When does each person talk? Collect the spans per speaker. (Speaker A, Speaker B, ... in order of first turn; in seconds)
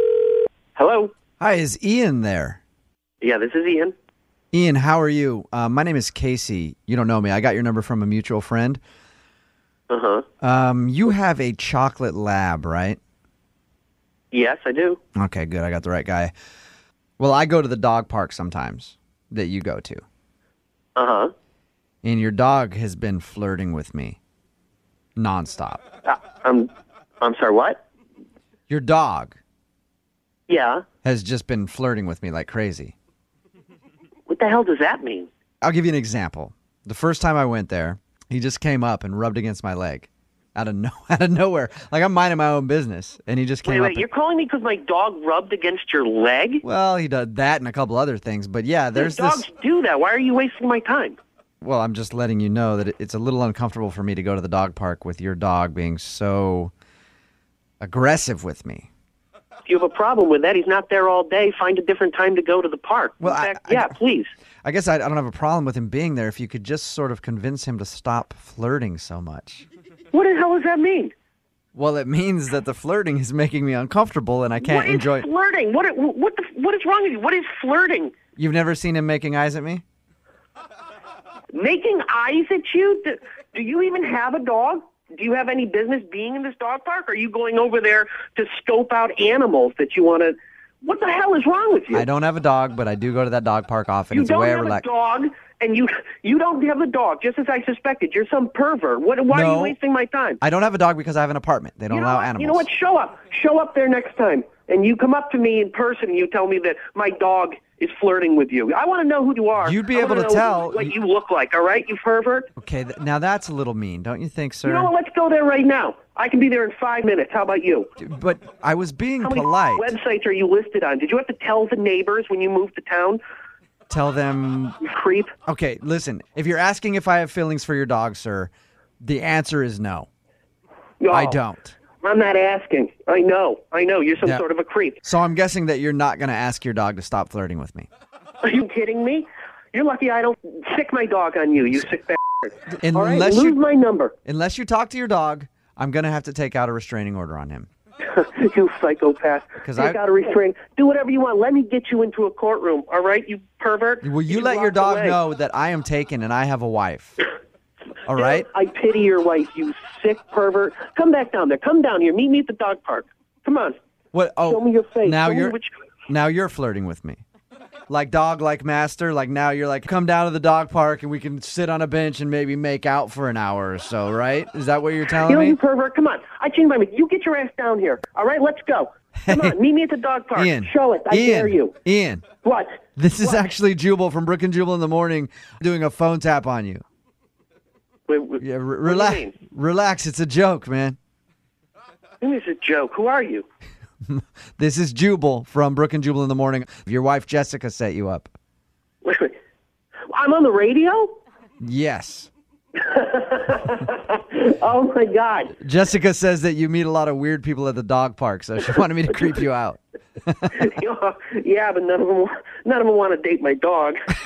Speaker A: 0.8-1.1, 3.2-4.0, 9.9-10.2, 14.3-15.0, 21.0-21.3, 26.1-27.8, 30.5-30.9, 34.3-35.3, 43.6-46.6, 49.0-51.2, 59.7-64.3, 70.1-71.1, 74.6-78.1, 81.5-92.0, 94.1-100.4, 101.9-112.5, 114.6-117.9, 119.2-123.2, 124.8-125.3, 131.0-131.4, 132.0-135.0, 138.4-144.2, 148.0-155.2, 158.1-163.8, 164.5-165.8, 175.2-181.8, 182.4-183.4, 188.1-189.4, 192.2-193.5, 199.0-199.4, 200.1-201.2, 202.8-205.6, 210.5-214.0
Speaker B: 1.4-2.6, 4.5-8.8, 10.4-13.0, 15.2-16.3, 17.2-20.0, 22.0-24.2, 25.2-25.8, 28.7-29.4, 31.0-32.9, 35.6-44.0, 46.6-49.4, 51.6-56.7, 57.8-58.9, 63.2-63.9, 64.6-69.7, 71.8-75.3, 78.4-79.8, 91.9-94.9, 99.3-99.8, 100.4-102.7, 109.6-110.9, 112.6-114.9, 118.0-119.9, 123.9-124.8, 125.5-130.1, 131.1-131.8, 135.0-137.9, 142.8-143.6, 144.3-147.7, 149.6-150.0, 154.0-157.2, 158.1-158.5, 164.1-165.6, 166.1-167.2, 167.9-175.6, 179.2-179.6, 180.3-182.3, 183.0-186.8, 188.4-191.0, 194.1-198.3, 201.6-202.3, 205.6-210.6